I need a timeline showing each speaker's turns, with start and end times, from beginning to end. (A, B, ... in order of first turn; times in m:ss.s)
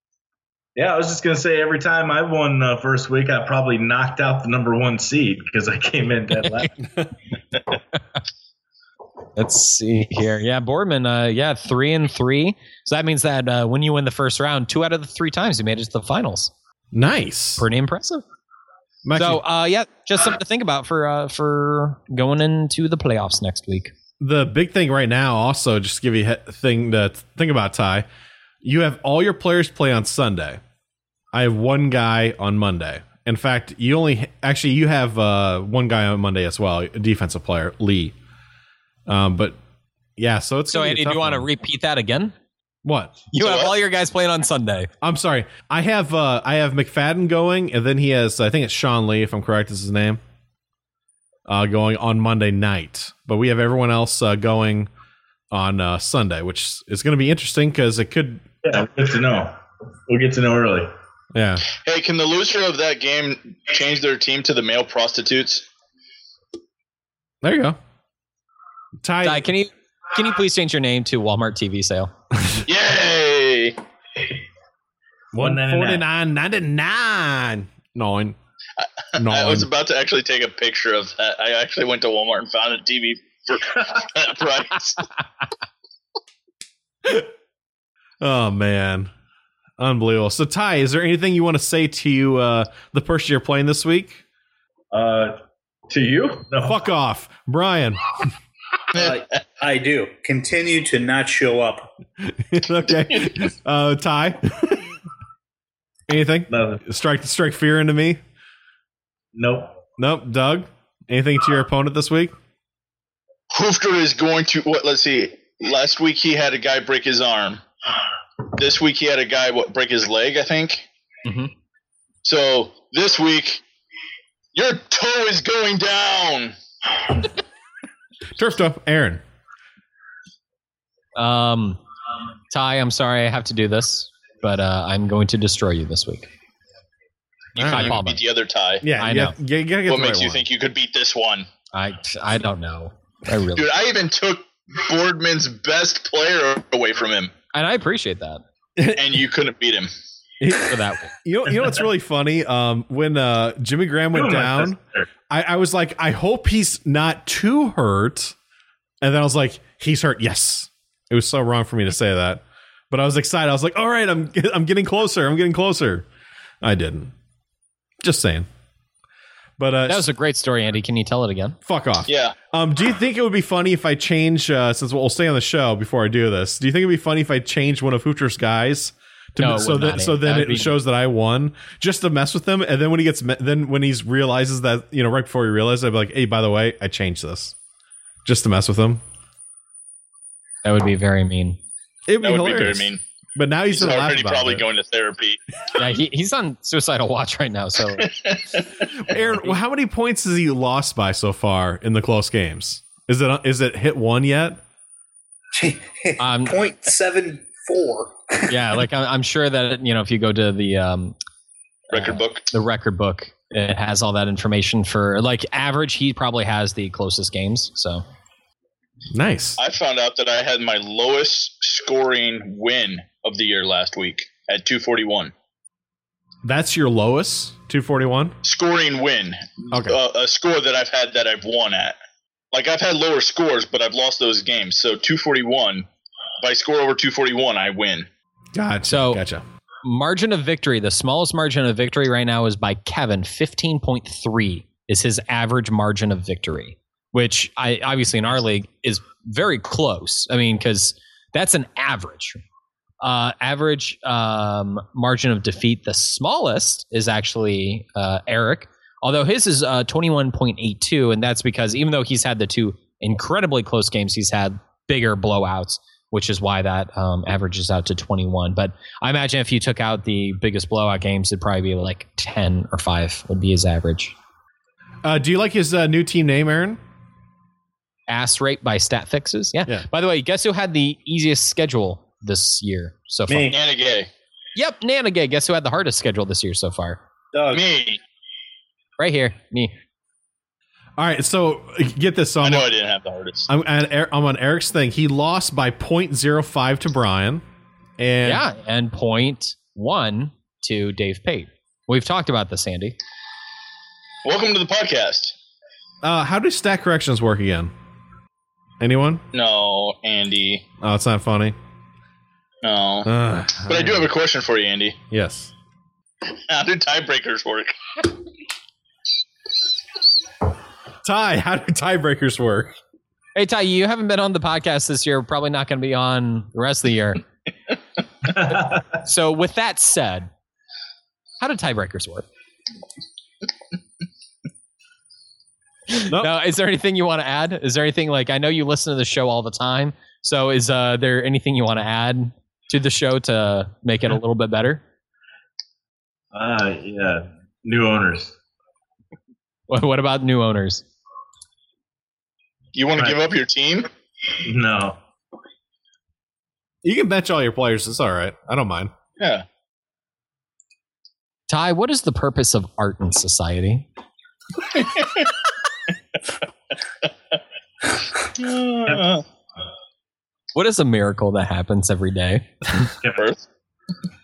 0:00.8-0:06.8 A
0:09.4-0:16.5 B
0:16.9-0:17.6 C
0:17.6-0:18.2 B
0:19.0-0:19.4 C
0:19.2-0:23.9 B
0:24.2-0:28.1 C
0:28.6-0:30.6 C
0:31.3-0:38.2 C
0:39.1-0:39.6 C
0:40.2-0:41.5 C
0:40.7-0:42.4 B
0:42.8-0:43.2 C
0:43.3-0:44.9 B
0:43.4-0:43.7 D
0:45.0-0:50.2 C
0:51.5-0:54.9 C
0:55.5-0:58.4 C
0:58.6-0:59.6 A
1:00.1-1:00.9 A
1:01.3-1:01.6 C
1:01.8-1:05.7 D
1:07.4-1:07.8 C
1:09.0-1:09.5 C
1:09.2-1:12.1 B
1:12.7-1:13.8 D
1:15.3-1:18.4 C
1:15.4-1:16.0 A
1:19.2-1:19.7 C
1:19.2-1:25.1 D
1:27.0-1:27.3 C
1:28.2-1:29.1 C
1:29.8-1:34.2 C
1:34.9-1:36.8 A
1:36.6-1:38.3 C
1:38.9-1:41.9 E
1:42.2-1:45.0 C
1:46.1-1:48.2 C
1:46.5-1:46.8 A
1:49.3-1:49.8 A
1:50.0-1:52.3 C
1:53.5-1:57.6 D
1:58.5-2:00.9 D
2:01.2-2:01.5 B
2:02.2-2:03.6 D
2:04.5-2:06.6 D
2:08.4-2:09.2 C
2:11.2-2:11.8 B
2:12.5-2:16.3 B
2:17.6-2:18.9 D
2:17.6-2:18.0 C
2:17.6-2:18.2 B
2:18.8-2:20.4 C
2:19.0-2:19.4 B
2:19.9-2:21.5 D
2:21.7-2:23.7 B
2:23.6-2:27.3 D
2:27.5-2:28.4 B
2:28.8-2:29.2 C
2:28.9-2:29.9 D
2:30.4-2:34.8 C
2:30.6-2:31.1 B
2:34.1-2:35.1 A
2:35.3-2:38.4 C
2:39.0-2:46.1 C
2:46.6-2:47.1 C
2:48.0-2:48.5 C
2:49.6-2:50.1 C
2:49.9-2:51.6 B
2:51.6-3:07.6 C
2:52.1-2:52.4 D
2:59.4-3:00.8 B
3:08.2-3:09.0 C
3:10.6-3:11.6 B
3:12.1-3:14.6 C
3:12.2-3:13.0 D
3:13.7-3:15.4 D
3:15.8-3:18.1 B
3:18.0-3:18.9 D
3:18.9-3:24.6 C
3:25.5-3:28.6 E
3:26.2-3:26.6 B
3:28.5-3:31.2 B
3:31.9-3:32.5 D
3:31.9-3:38.0 B
3:39.1-3:39.6 C
3:39.6-3:45.3 D
3:46.4-3:48.4 C
3:48.4-3:52.0 D
3:49.7-3:50.0 C
3:52.5-3:55.9 D
3:56.4-3:58.1 D
3:58.5-3:59.4 C
3:58.9-3:59.2 B
3:59.8-4:12.4 B
4:13.0-4:34.2 B
4:35.0-4:36.8 C
4:38.1-4:43.5 B
4:43.3-4:43.6 E
4:43.5-4:44.1 D
4:44.6-4:47.0 B
4:47.3-4:47.6 E
4:47.5-4:48.0 D
4:49.0-4:49.8 B
4:51.0-4:52.7 C
4:52.4-4:53.5 D
4:53.5-4:57.4 C
4:58.0-4:58.4 C
4:58.2-5:03.0 B
5:04.2-5:05.4 D
5:06.0-5:07.7 C
5:08.8-5:09.2 C
5:09.3-5:10.6 D
5:10.8-5:11.6 C
5:12.6-5:13.1 D
5:13.0-5:14.1 C
5:13.7-5:15.0 D
5:15.1-5:15.5 C
5:16.5-5:17.8 D
5:21.0-5:22.8 C
5:23.4-5:27.2 B
5:28.2-5:28.8 A
5:28.9-5:30.3 B
5:31.4-5:32.3 B
5:35.9-5:44.8 B
5:46.3-5:48.4 A
5:49.7-5:50.8 B
5:52.8-5:53.9 D
5:54.4-5:55.0 A
5:56.8-5:58.9 C
5:59.2-5:59.4 D
6:01.5-6:03.9 B
6:04.7-6:05.3 D
6:08.2-6:09.2 D
6:08.8-6:09.2 A
6:10.5-6:12.8 B
6:13.0-6:13.3 A
6:13.2-6:13.4 D